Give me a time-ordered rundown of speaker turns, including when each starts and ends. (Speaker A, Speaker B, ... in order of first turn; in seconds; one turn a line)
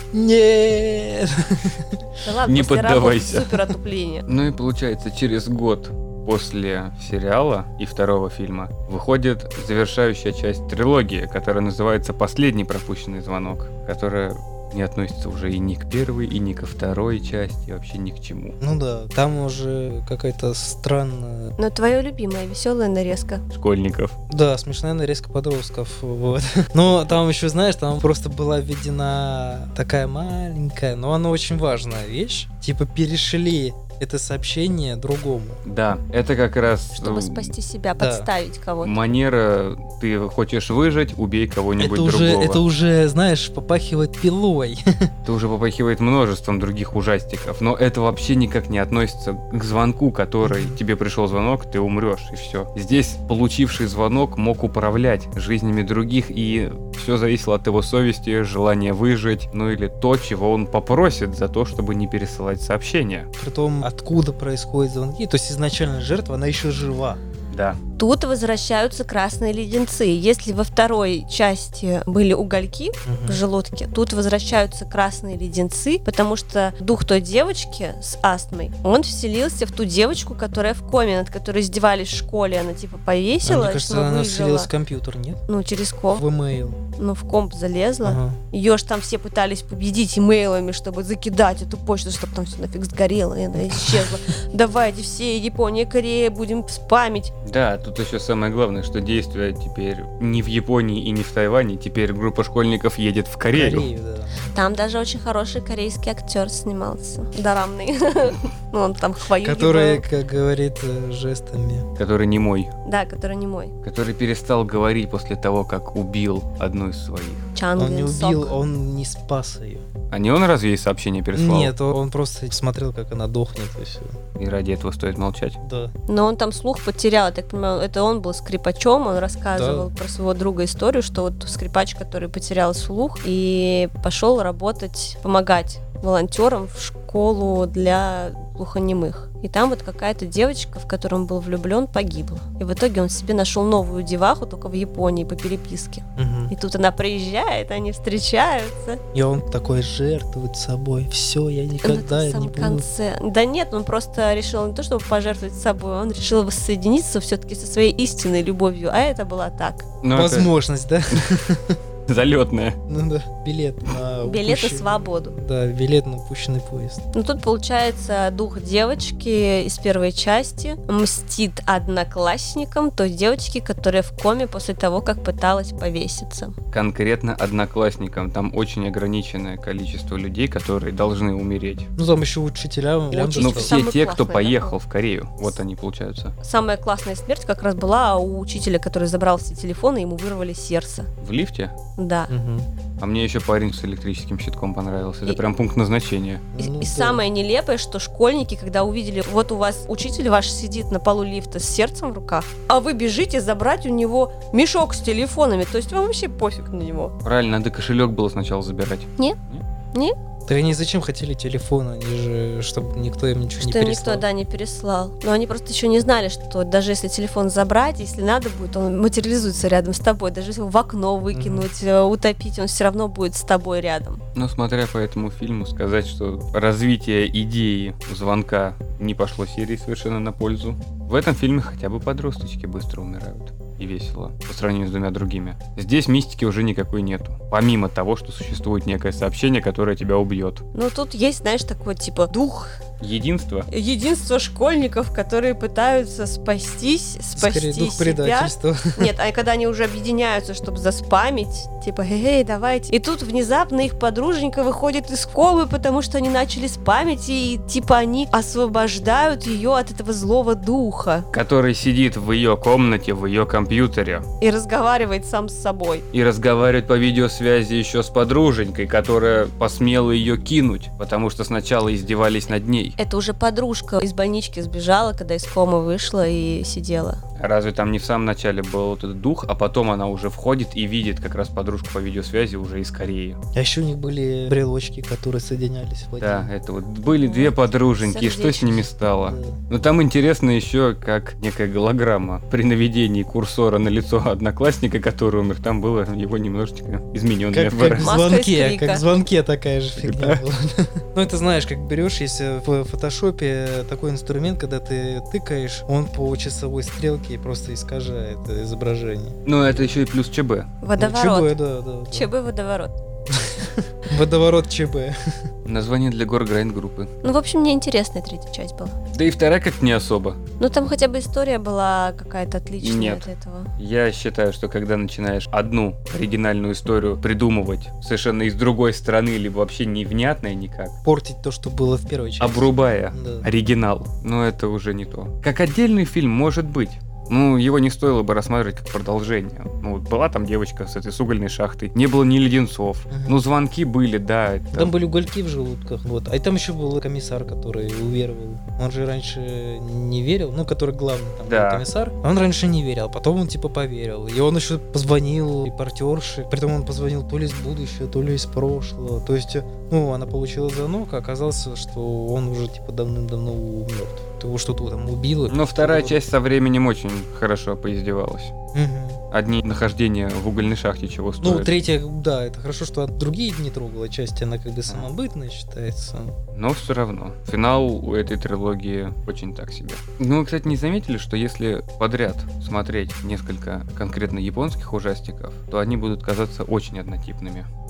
Speaker A: 0.1-2.0
Speaker B: 2.2-4.3
Speaker C: 2.5-3.5
Speaker C: 4.3-18.6
Speaker A: 18.6-21.5
Speaker B: 21.6-23.4
Speaker C: 23.5-24.1
Speaker A: 24.3-35.6
Speaker C: 35.6-37.5
Speaker B: 37.0-39.0
Speaker A: 38.0-38.3
Speaker C: 38.8-42.6
Speaker A: 41.8-45.1
Speaker C: 45.2-63.3
Speaker A: 50.4-50.8
Speaker A: 63.4-67.2
Speaker C: 67.5-67.8
Speaker B: 68.0-84.7
Speaker A: 73.1-73.4
Speaker A: 83.5-85.4
Speaker B: 85.5-86.2
Speaker A: 86.2-86.8
Speaker B: 87.0-97.3
Speaker A: 88.0-88.4
Speaker C: 97.4-103.9
Speaker A: 103.5-104.5
Speaker B: 104.5-110.0
Speaker A: 109.4-111.9
Speaker C: 112.0-112.7
Speaker B: 112.8-113.7
Speaker C: 113.8-117.5
Speaker B: 117.5-118.5
Speaker A: 117.8-119.8
Speaker C: 120.1-121.7
Speaker A: 121.3-124.2
Speaker C: 124.4-125.6
Speaker A: 125.6-125.9
Speaker B: 126.1-149.0
Speaker A: 129.5-129.9
Speaker A: 146.2-146.5
Speaker A: 149.1-152.8
Speaker B: 151.8-159.9
Speaker C: 160.0-160.5
Speaker A: 160.1-161.8
Speaker C: 162.1-162.8
Speaker A: 162.9-167.0
Speaker B: 164.2-165.3
Speaker B: 167.1-176.6
Speaker C: 176.7-181.9
Speaker A: 182.0-183.8
Speaker B: 183.1-184.8
Speaker C: 183.4-186.3
Speaker B: 186.4-191.1
Speaker C: 191.2-191.8
Speaker B: 192.0-192.3
Speaker A: 192.3-192.7
Speaker C: 193.0-196.5
Speaker A: 196.5-197.2
Speaker B: 196.6-207.1
Speaker C: 207.2-209.6
Speaker A: 210.5-214.2
Speaker B: 213.6-224.2
Speaker A: 221.3-221.7
Speaker C: 224.3-240.6
Speaker B: 240.7-242.8
Speaker C: 243.0-243.7
Speaker B: 243.7-261.3
Speaker A: 247.3-249.1
Speaker C: 261.3-264.2
Speaker B: 264.4-266.0
Speaker C: 266.1-273.0
Speaker B: 273.0-277.2
Speaker C: 277.4-283.4
Speaker A: 283.6-286.5
Speaker C: 286.2-298.1
Speaker B: 287.1-288.8
Speaker A: 289.3-289.6
Speaker A: 297.5-309.8
Speaker B: 298.0-299.0
Speaker C: 300.0-300.4
Speaker C: 309.5-310.7
Speaker B: 310.8-311.6
Speaker A: 311.0-312.3
Speaker B: 312.1-312.9
Speaker A: 313.3-315.2
Speaker C: 315.7-317.1
Speaker B: 317.2-318.9
Speaker C: 319.1-320.4
Speaker B: 320.6-323.7
Speaker C: 322.8-323.3
Speaker C: 323.8-330.9
Speaker A: 331.0-333.5
Speaker C: 332.4-344.9
Speaker A: 343.1-343.4
Speaker A: 344.7-366.2
Speaker C: 351.5-351.8
Speaker C: 365.5-368.5
Speaker A: 368.7-369.2
Speaker C: 369.3-371.8
Speaker A: 371.4-376.4
Speaker C: 376.5-387.7